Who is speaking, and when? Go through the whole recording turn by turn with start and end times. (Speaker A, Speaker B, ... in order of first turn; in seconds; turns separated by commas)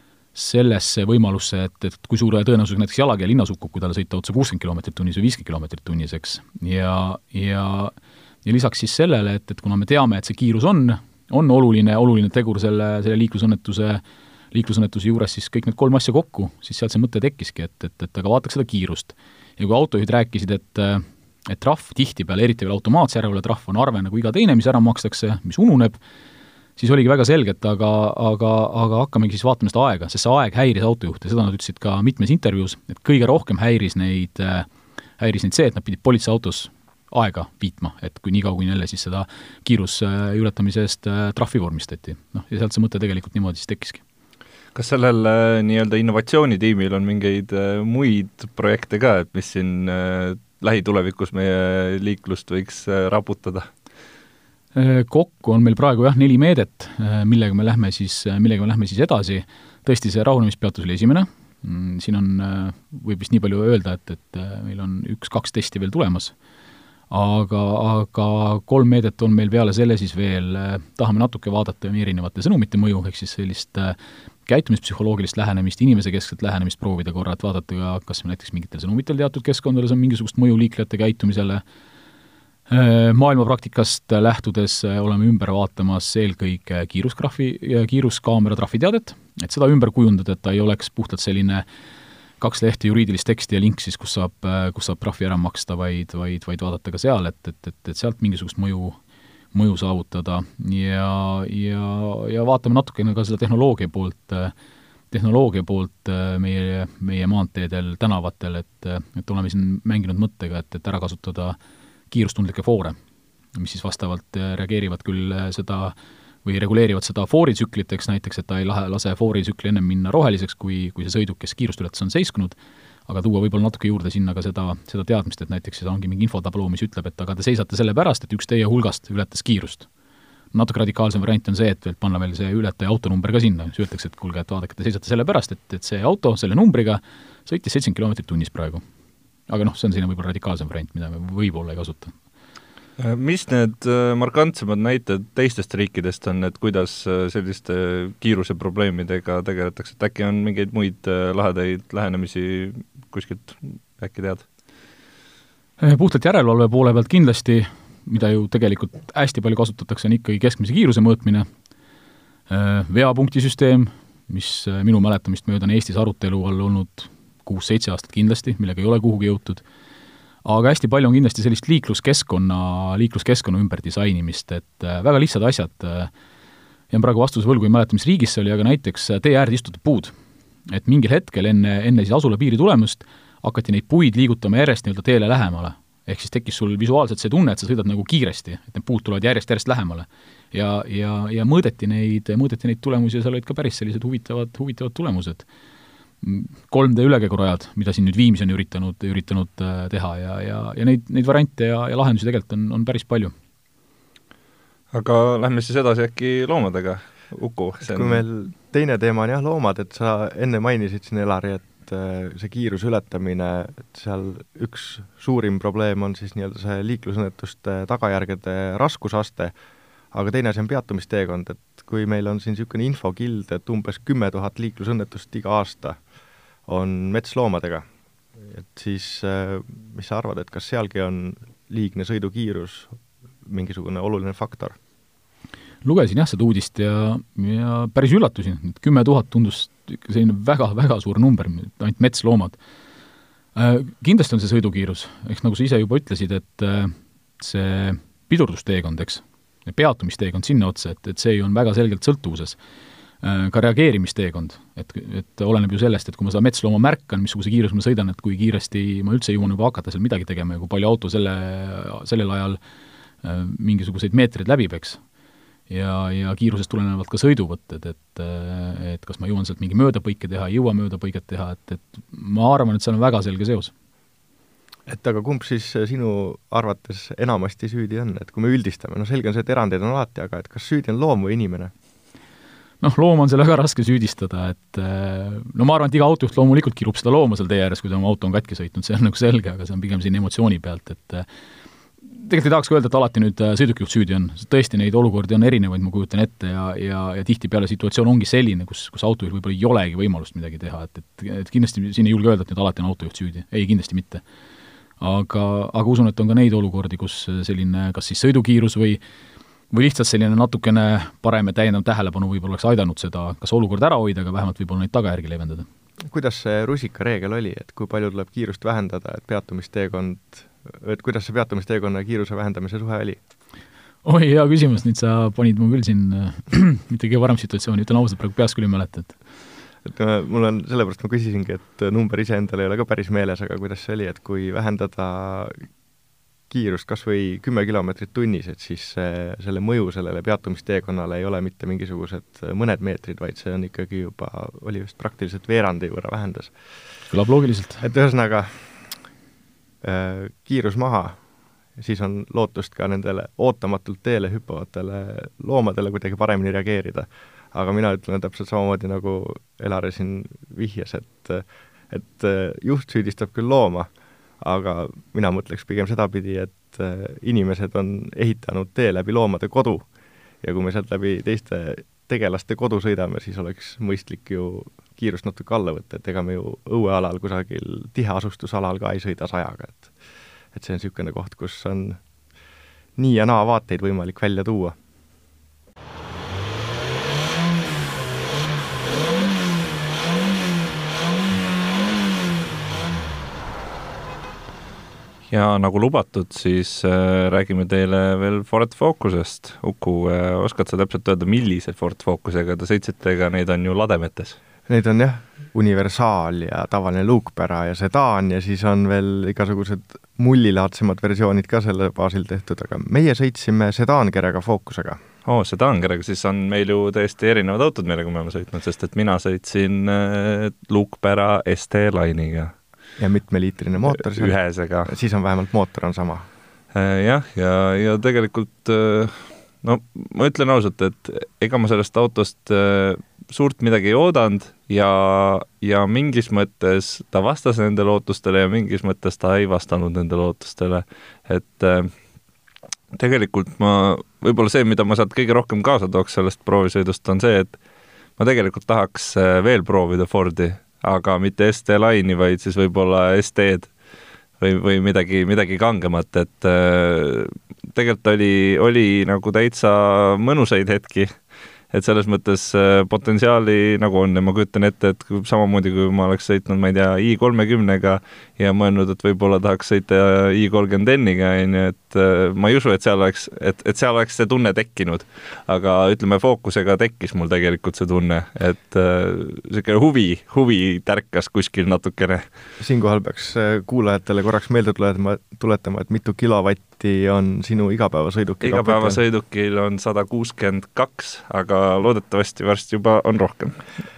Speaker A: 0.3-26.0, Speaker A: 26.8-44.0, Speaker B: 44.8-53.7, Speaker A: 54.8-66.3, Speaker A: 67.1-81.6, Speaker A: 82.7-91.7, Speaker A: 92.4-99.0, Speaker A: 99.5-104.5, Speaker A: 105.1-111.6, Speaker A: 112.1-113.0, Speaker A: 113.5-129.9, Speaker A: 130.5-138.8, Speaker A: 139.5-142.1, Speaker B: 143.0-154.5, Speaker A: 155.8-161.5, Speaker A: 162.5-169.6, Speaker A: 170.4-176.1, Speaker A: 176.9-180.1, Speaker A: 180.7-195.5, Speaker A: 196.2-203.3, Speaker B: 204.9-208.2, Speaker C: 207.8-219.5, Speaker C: 220.1-226.0, Speaker C: 226.7-227.9, Speaker C: 228.5-234.8, Speaker A: 235.8-242.6, Speaker A: 243.6-252.6, Speaker A: 253.2-262.6, Speaker A: 263.2-265.0, Speaker A: 265.7-273.7, Speaker C: 274.9-281.7, Speaker A: 282.8-291.3, Speaker A: 292.1-304.2, Speaker A: 305.0-309.0, Speaker A: 309.7-315.7, Speaker C: 316.1-323.2, Speaker A: 324.0-329.2, Speaker C: 329.9-335.6, Speaker C: 336.5-346.5, Speaker A: 347.1-347.9, Speaker C: 347.8-348.8, Speaker C: 349.8-351.2, Speaker C: 351.8-363.9, Speaker C: 364.4-369.9, Speaker C: 370.4-379.9, Speaker C: 380.5-382.0, Speaker C: 383.0-384.8, Speaker B: 395.3-404.4, Speaker C: 404.7-415.0, Speaker B: 415.3-422.5, Speaker C: 423.0-424.3, Speaker B: 424.0-424.9, Speaker C: 424.9-426.3, Speaker B: 426.7-441.9, Speaker B: 442.9-447.6, Speaker B: 448.2-453.7, Speaker B: 454.4-461.1, Speaker B: 461.7-482.2, Speaker C: 482.6-489.0, Speaker B: 488.4-493.6